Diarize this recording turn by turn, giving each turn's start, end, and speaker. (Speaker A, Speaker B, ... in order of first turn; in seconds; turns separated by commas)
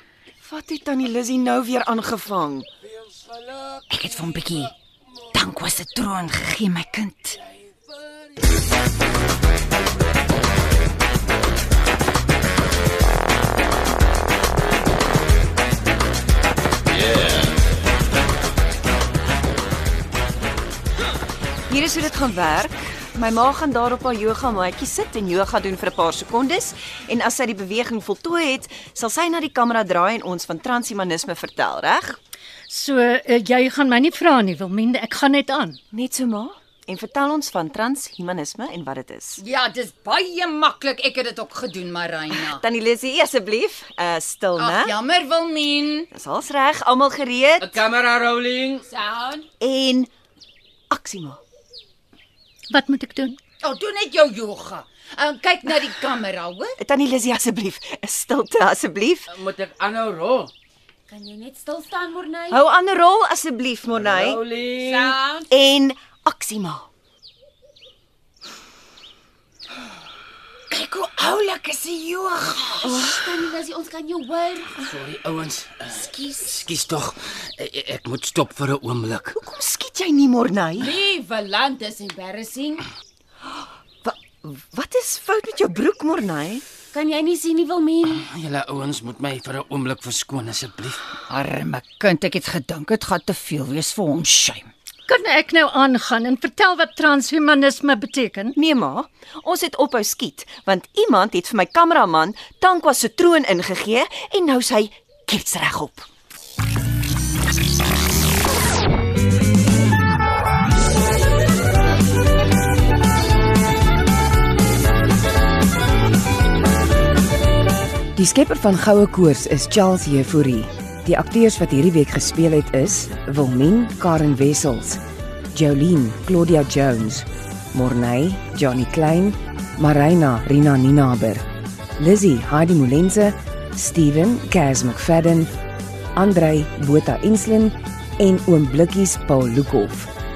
Speaker A: 0.4-2.7, Speaker B: 3.5-3.8, Speaker C: 3.9-4.7, Speaker C: 5.3-7.4, Speaker A: 21.7-32.2, Speaker D: 32.7-35.8, Speaker A: 35.9-39.4, Speaker C: 39.4-42.6, Speaker A: 42.4-45.0, Speaker C: 44.6-46.1, Speaker A: 46.1-47.7, Speaker B: 47.6-48.9, Speaker A: 49.6-50.1, Speaker A: 50.9-51.4, Speaker D: 52.7-53.4, Speaker C: 53.6-56.8, Speaker A: 56.8-59.3, Speaker B: 59.3-60.5, Speaker E: 61.1-62.6, Speaker A: 62.5-64.4, Speaker B: 64.0-65.2, Speaker E: 64.8-65.5, Speaker A: 65.5-66.9, Speaker C: 70.7-72.7, Speaker E: 72.8-74.8, Speaker A: 72.8-73.3, Speaker B: 74.8-79.3, Speaker C: 76.1-76.5, Speaker A: 79.3-80.9, Speaker E: 80.8-82.8, Speaker A: 84.0-86.6, Speaker E: 86.9-88.2, Speaker B: 88.1-91.2, Speaker C: 91.3-94.7, Speaker D: 95.1-98.5, Speaker A: 98.5-106.1, Speaker F: 118.2-131.5, Speaker F: 132.0-135.5, Speaker F: 136.1-140.1